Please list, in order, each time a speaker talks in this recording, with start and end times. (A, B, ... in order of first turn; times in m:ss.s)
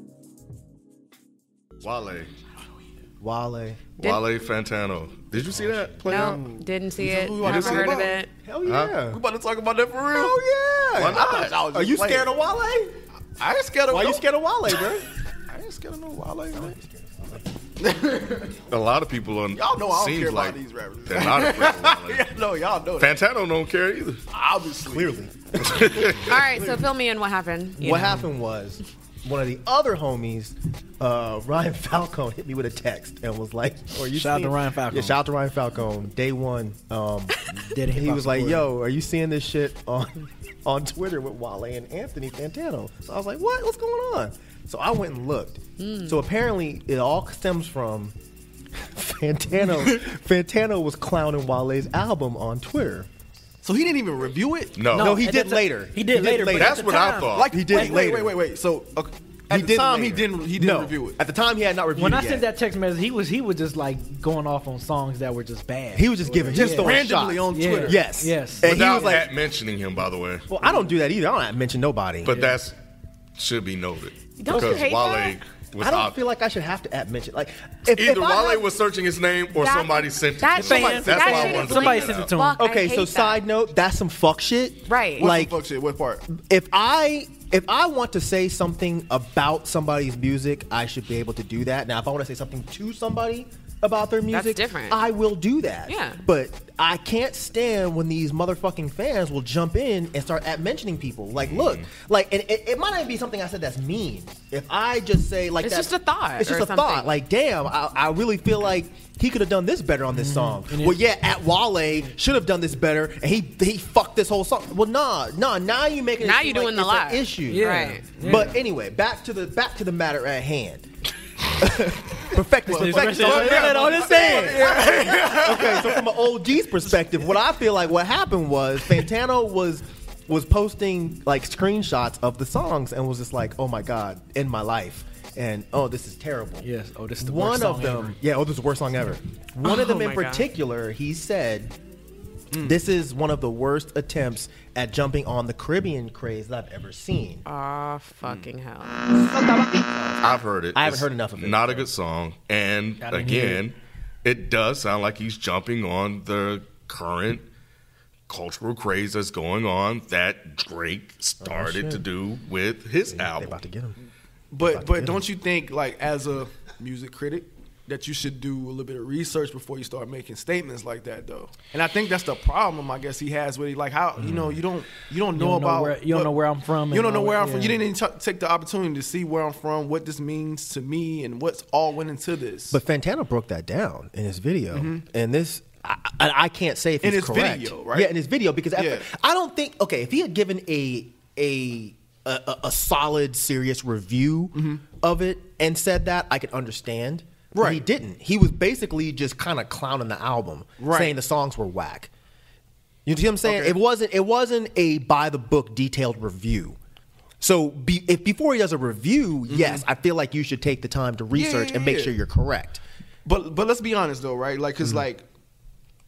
0:01.8-0:02.3 A
0:03.2-0:03.8 B
0:04.0-0:06.3 A
0:04.0-0:04.2 C
0:05.5-0:06.6 B
0:06.0-0:08.3 C
0:06.1-0:08.2 D
0:07.4-0:07.9 A
0:08.4-0:09.2 B
0:08.6-0:09.0 A
0:09.0-0:10.4 D
0:10.1-0:12.9 B
0:10.9-0:11.5 A
0:11.0-0:12.3 D
0:13.4-0:14.2 D
0:13.9-0:15.0 B
0:15.5-0:16.7 D
0:16.5-0:17.4 B
0:17.8-0:18.6 D
0:18.6-0:22.3 A
0:19.5-0:23.2 D
0:23.0-0:24.2 A
0:24.3-0:25.1 D
0:24.8-0:25.9 B
0:25.6-0:26.4 A
0:25.9-0:26.8 D
0:26.3-0:28.2 C
0:27.8-0:48.1 B
0:34.1-0:35.2 E
0:37.6-0:38.6 E
0:45.8-0:46.2 C
0:48.9-0:53.1 B
0:53.6-0:54.9 D
0:54.8-0:55.2 A
0:54.9-0:57.9 E
0:54.9-0:56.8 B
0:56.5-0:57.6 A
0:57.3-1:01.2 D
0:57.4-0:58.3 B
0:59.5-1:02.5 B
1:01.9-1:07.0 E
1:05.9-1:09.3 B
1:06.5-1:08.2 D
1:07.5-1:08.7 E
1:08.6-1:10.4 A
1:10.5-1:12.3 B
1:12.2-1:12.8 A
1:13.4-1:16.2 A
1:14.4-1:15.4 C
1:15.8-1:18.6 B
1:17.9-1:22.4 A
1:19.5-1:23.4 C
1:20.5-1:22.2 D
1:20.6-1:22.6 E
1:22.6-1:25.5 B
1:24.9-1:25.3 C
1:25.2-1:26.2 D
1:26.3-2:00.8 B
1:34.3-1:35.0 C
1:35.8-1:36.2 C
1:41.4-1:41.9 A
1:45.6-1:47.1 C
1:50.2-1:51.0 E
1:56.2-1:58.1 C
1:57.5-1:58.5 E
2:01.6-2:16.6 B
2:02.7-2:04.9 E
2:02.7-2:06.0 D
2:16.6-2:18.2 E
2:17.2-2:21.7 B
2:19.6-2:20.5 C
2:22.5-2:22.8 D
2:22.6-2:27.4 B
2:27.4-2:29.8 C
2:28.2-2:28.5 D
2:29.4-2:31.8 B
2:30.2-2:37.4 A
2:33.1-2:33.4 E
2:38.3-2:43.6 A
2:41.4-2:42.0 B
2:43.1-2:44.0 B
2:44.5-3:02.8 D
2:44.6-2:45.2 B
2:54.2-2:54.6 B
2:55.3-2:57.7 E
3:02.7-3:22.1 B
3:04.7-3:05.0 D
3:07.0-3:08.1 D
3:08.8-3:09.1 D
3:14.5-3:14.8 D
3:17.5-3:17.8 D
3:20.8-3:21.2 D
3:23.0-3:26.8 B
3:23.4-3:23.8 D
3:27.4-3:32.8 B
3:29.5-3:29.8 D
3:31.3-3:32.1 D
3:33.2-3:35.2 D